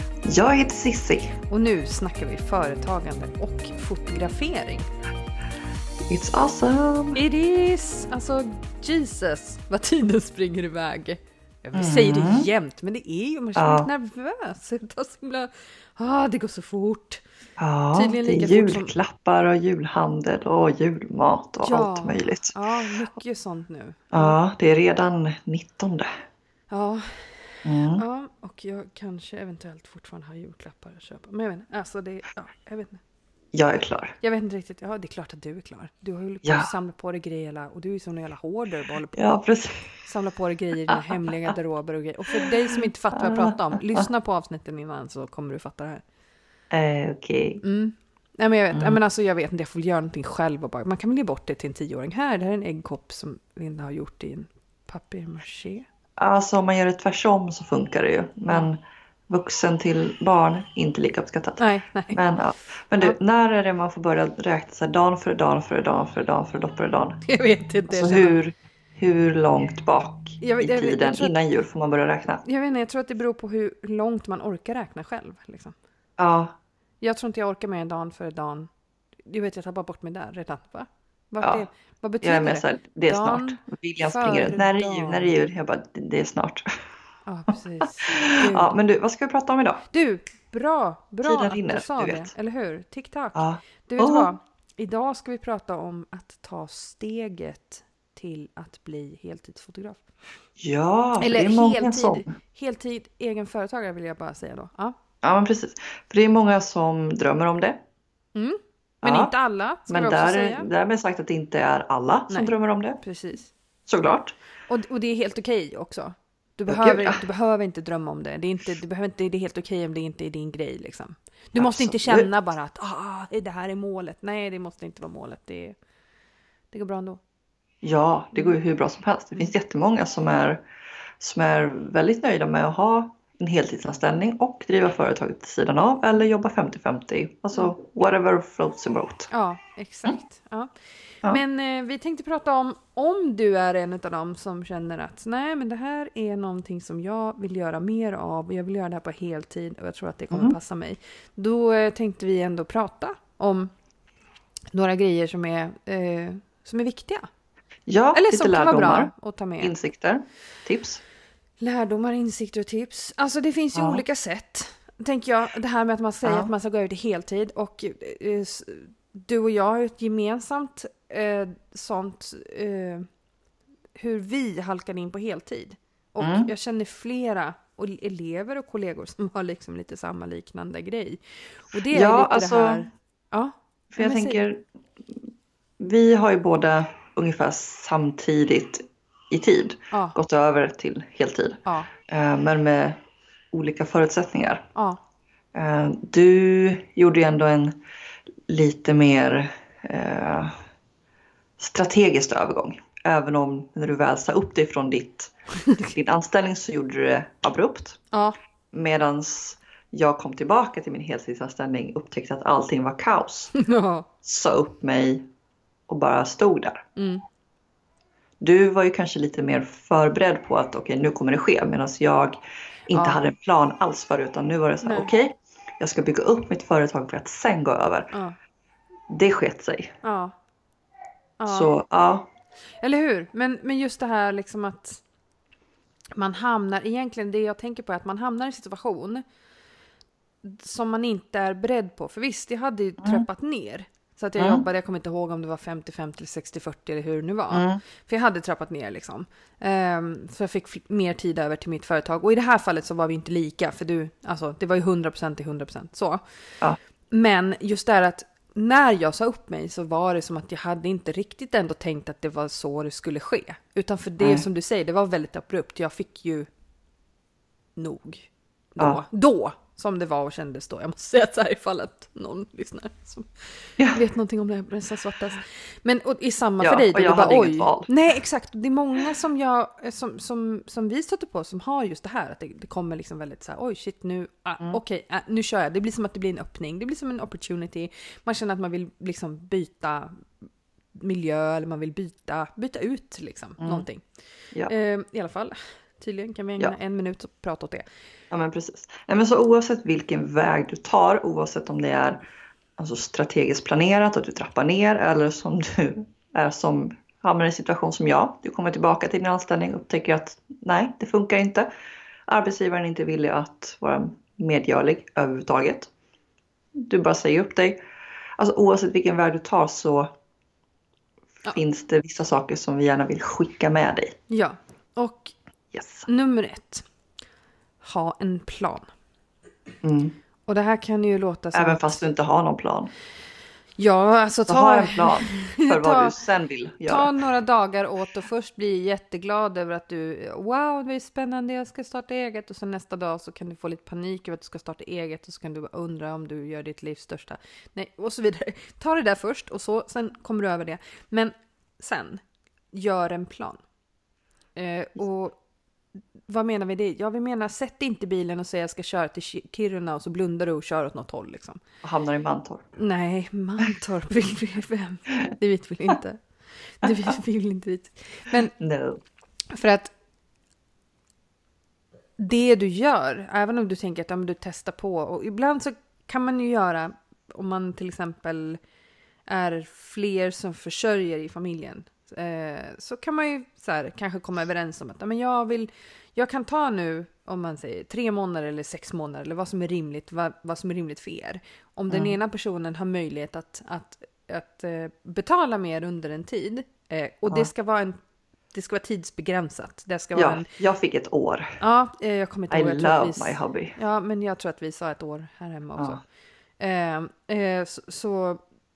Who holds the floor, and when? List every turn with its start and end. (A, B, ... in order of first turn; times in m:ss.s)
0:00.3-0:01.4 A
0:01.5-0:04.9 B
0:06.1-0:07.2 A
0:07.2-0:17.2 B
0:11.7-0:12.5 A
0:13.6-0:13.9 A
0:17.6-0:22.6 A
0:17.9-0:18.9 B
0:21.6-0:24.4 B
0:24.1-0:26.1 A
0:26.7-0:27.3 B
0:27.6-0:28.0 A
0:28.0-0:33.0 B
0:33.5-0:34.2 A
0:34.2-0:39.4 B
0:36.4-0:36.7 A
0:39.1-0:40.0 A
0:40.0-0:46.0 B
0:40.9-0:41.5 A
0:43.1-0:44.1 A
0:46.7-0:47.6 A
0:47.6-0:55.8 B
0:48.7-0:49.0 A
0:56.2-0:58.8 A
0:59.3-1:07.2 A
1:01.6-1:02.2 B
1:07.3-1:08.4 B
1:07.9-1:12.4 A
1:10.4-1:11.4 B
1:12.4-1:15.8 B
1:16.2-1:16.5 A
1:17.0-1:18.7 B
1:19.3-1:25.4 B
1:22.2-1:26.7 A
1:27.3-1:28.7 B
1:28.0-1:29.8 A
1:29.9-1:40.0 B
1:31.2-1:32.3 A
1:33.4-1:34.3 A
1:40.6-1:42.3 A
1:41.2-1:44.9 B
1:45.2-1:47.8 A
1:48.4-1:50.7 B
1:49.0-1:49.3 A
1:49.9-1:53.0 A
1:52.3-1:53.5 B
1:53.9-1:54.4 A
1:54.7-2:05.8 B
1:56.7-1:57.2 A
2:01.6-2:02.3 A
2:06.7-2:07.2 B
2:07.8-2:10.6 A
2:11.2-2:19.3 A
2:19.3-2:20.7 B
2:21.2-2:33.7 B
2:30.3-2:30.6 A
2:34.7-2:37.2 B
2:37.9-2:41.0 A
2:38.1-2:39.7 B
2:41.6-2:53.1 B
2:43.7-2:44.0 A
2:46.2-2:46.5 A
2:54.0-3:04.4 B
2:56.2-2:56.5 A
3:01.9-3:02.8 A
3:03.9-3:04.6 A
3:05.8-3:13.0 A
3:09.9-3:10.2 B
3:11.7-3:11.9 B
3:13.5-3:14.7 A
3:14.8-3:15.0 B
3:15.6-3:17.8 A
3:18.5-3:20.6 A
3:21.6-3:25.3 A
3:25.9-3:28.0 A
3:28.1-3:28.4 B
3:28.7-3:33.5 A
3:33.5-3:34.1 B
3:34.2-3:35.2 A
3:35.9-3:36.8 A
3:37.0-3:37.2 B
3:38.4-3:48.1 A
3:42.9-3:43.2 B
3:44.8-3:45.1 B
3:49.1-3:50.0 A
3:50.0-3:50.4 B
3:51.4-3:51.7 B
3:51.5-3:52.3 A
3:52.8-3:55.0 B
3:56.2-3:59.2 B
4:00.4-4:16.2 B
4:03.0-4:03.3 A
4:04.4-4:04.6 A
4:07.5-4:07.8 A
4:17.1-4:26.5 B
4:24.2-4:24.4 A
4:27.8-4:54.0 B
4:36.6-4:37.9 A
4:53.6-4:53.9 A
4:54.7-4:57.8 B
4:58.3-5:02.2 A
5:02.8-5:11.7 A
5:12.3-5:15.9 A
5:16.8-5:17.8 A
5:18.4-5:20.1 A
5:21.5-5:24.2 A
5:24.3-5:25.3 B
5:25.7-5:26.1 A
5:26.1-5:26.8 B
5:27.8-5:28.9 B
5:29.8-5:30.2 A
5:30.5-5:32.1 B
5:31.5-5:32.9 A
5:33.8-5:36.2 B
5:34.5-5:37.1 A
5:36.8-5:52.2 B
5:52.7-5:53.6 B
5:54.6-5:55.4 B
5:56.3-6:01.6 B
6:01.8-6:02.6 A
6:02.8-6:06.2 B
6:06.8-6:08.5 B
6:08.6-6:09.0 A
6:09.5-6:09.9 B
6:12.2-6:18.6 B
6:19.3-6:38.0 B
6:31.9-6:32.2 A
6:38.5-6:40.5 B
6:40.2-6:41.6 A
6:41.6-6:46.0 B
6:42.5-6:43.8 A
6:46.6-6:48.4 B